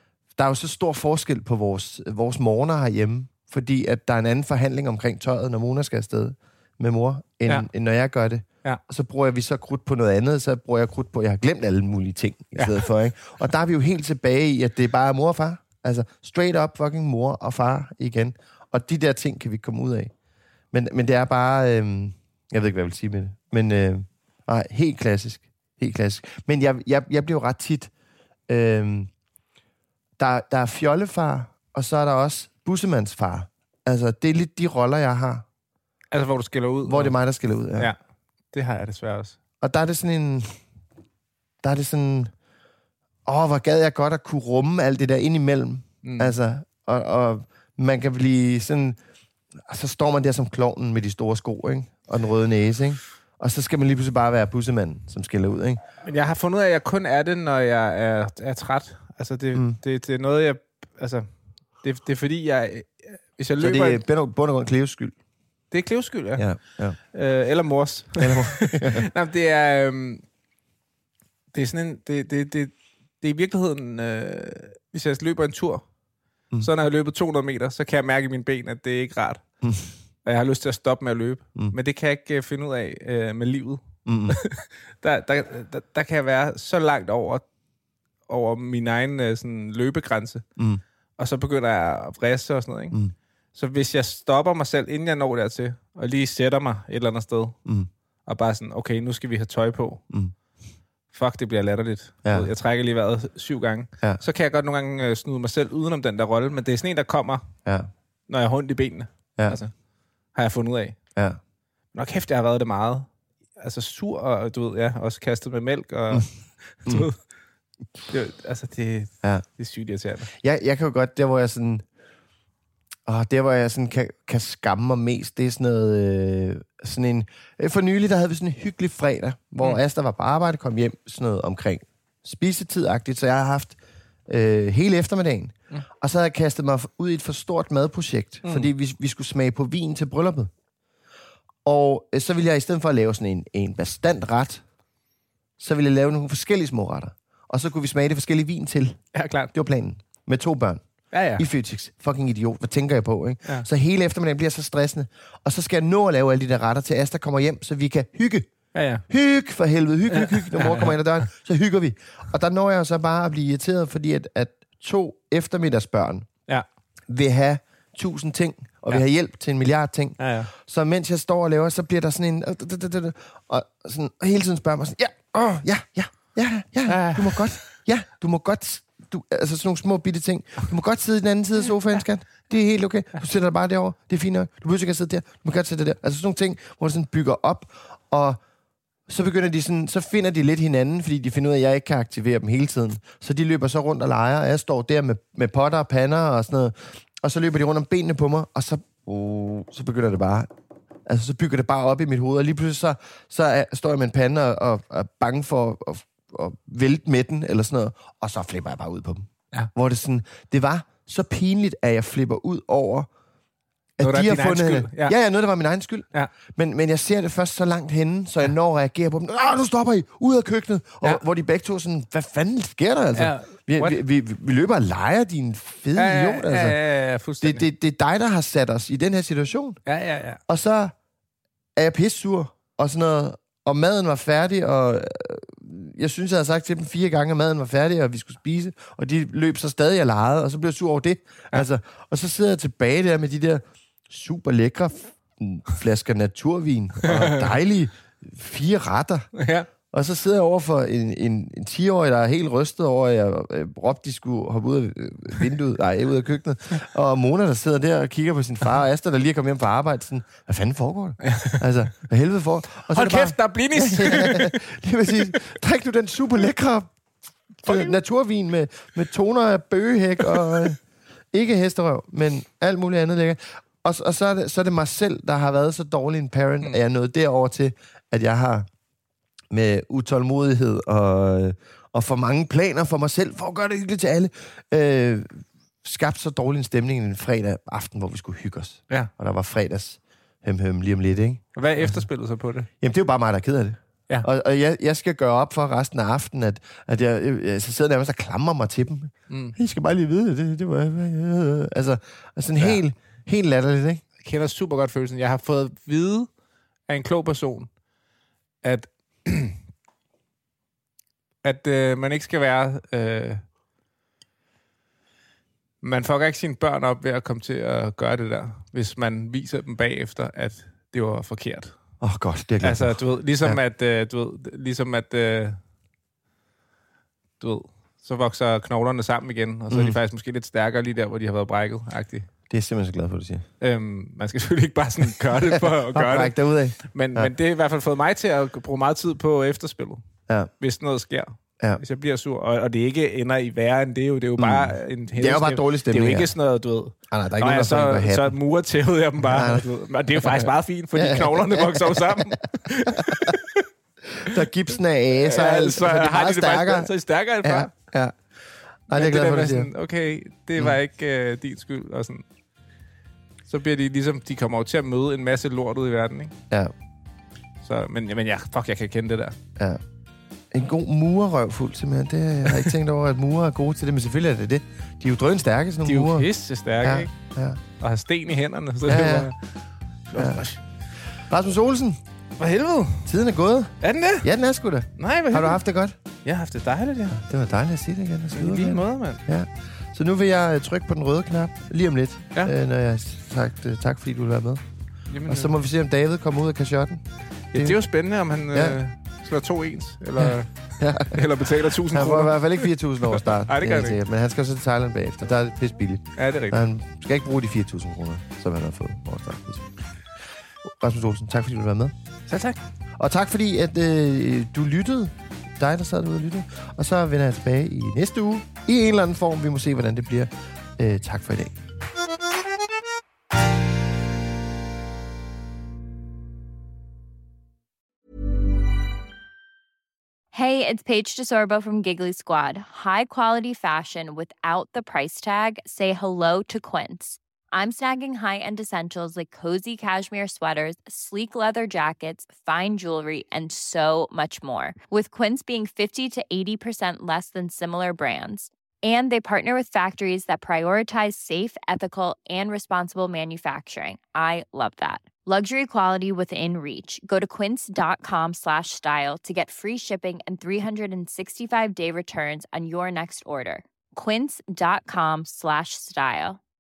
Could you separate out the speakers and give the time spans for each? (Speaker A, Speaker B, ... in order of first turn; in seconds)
Speaker A: 0.3-20.1, 20.7-27.9, 28.5-29.1, 30.2-35.5, 36.9-37.9, 39.6-40.5, 41.6-42.3, 43.3-49.0, 49.7-55.8, 63.6-65.2, 66.4-67.0, 68.2-69.1, 84.0-84.4, 90.6-90.8, 102.2-102.5, 120.3-121.9, 123.1-133.8, 134.3-140.5, 141.7-144.6, 145.6-149.0, 149.5-150.8, 151.3-158.5, 159.1-166.3, 167.1-188.4, 189.1-200.5, 201.1-213.1, 214.0-226.8, 227.4-229.8, 230.5-230.9, 231.8-249.3, 249.9-266.9, 267.6-270.8, 271.3-278.7, 279.5-292.0, 292.8-304.0, 322.0-323.6, 329.7-330.0, 332.5-333.4, 335.9-337.3, 344.4-346.3, 347.1-348.4, 349.2-352.2, 354.2-358.1, 358.9-359.7, 370.5-376.3, 376.8-377.6, 378.9-379.3, 380.2-380.4, 381.3-382.0, 383.1-386.0, 387.1-394.6, 395.3-397.0, 398.5-398.8, 400.2-401.2, 401.8-409.7, 410.6-411.9, 413.0-421.6
Speaker B: 12.6-12.9, 36.1-37.2, 38.5-39.4, 46.0-46.4, 56.0-61.3, 61.8-64.0, 65.7-66.5, 67.1-70.2, 71.5-75.8, 76.6-79.4, 80.2-87.4, 88.3-90.5, 91.2-93.0, 93.5-97.6, 98.3-100.0, 101.1-107.5, 108.3-109.7, 110.3-111.0, 111.9-117.2, 118.1-120.3, 138.4-138.7, 149.1-149.5, 151.1-151.4, 158.7-159.1, 160.1-160.9, 170.2-170.5, 176.9-177.6, 214.0-215.2, 223.2-224.0, 226.0-227.7, 229.9-230.4, 247.1-247.5, 249.3-249.7, 261.2-261.6, 262.9-264.6, 267.6-268.0, 291.6-292.7, 299.3-299.6, 304.2-306.3, 306.9-307.7, 308.6-309.6, 311.4-313.4, 315.8-321.7, 322.6-325.6, 327.4-332.3, 333.6-340.0, 340.6-353.7, 355.2-357.7, 358.9-362.2, 363.5-366.3, 367.6-369.4, 375.9-377.1, 377.8-379.4, 380.1-380.6, 382.4-383.1, 383.8-384.3, 385.0-385.6, 386.2-387.2, 388.3-389.2, 395.1-395.6, 397.5-404.0, 406.2-406.7, 412.3-412.6
Speaker C: 430.3-466.4